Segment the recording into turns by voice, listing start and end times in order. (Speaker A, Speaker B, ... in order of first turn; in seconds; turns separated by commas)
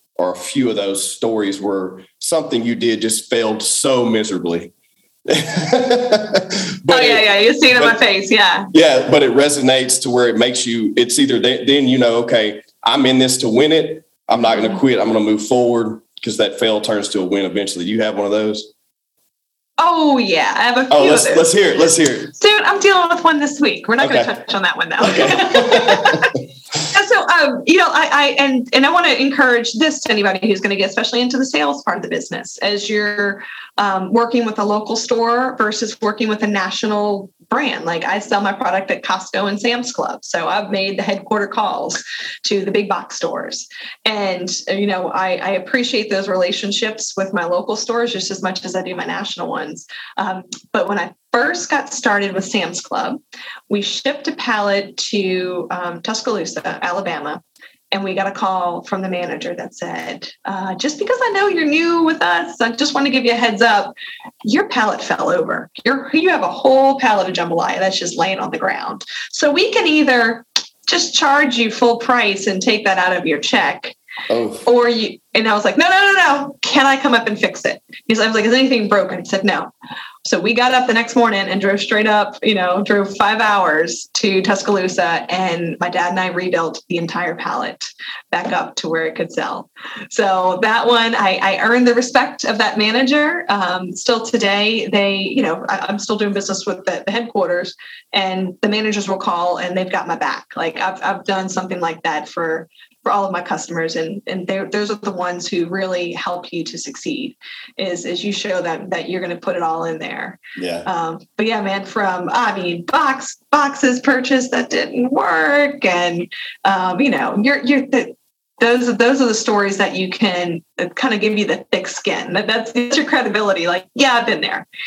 Speaker A: 0.2-4.7, Speaker A: 5.3-8.0, Speaker B: 6.9-8.7, Speaker A: 8.7-18.7, Speaker B: 19.8-21.5, Speaker A: 20.9-22.3, Speaker B: 22.4-26.4, Speaker A: 24.0-24.3, Speaker A: 25.0-26.4, Speaker B: 26.9-63.9, Speaker B: 64.4-74.0, Speaker A: 74.3-74.6, Speaker B: 74.6-79.7, Speaker B: 80.2-124.7, Speaker A: 110.6-110.9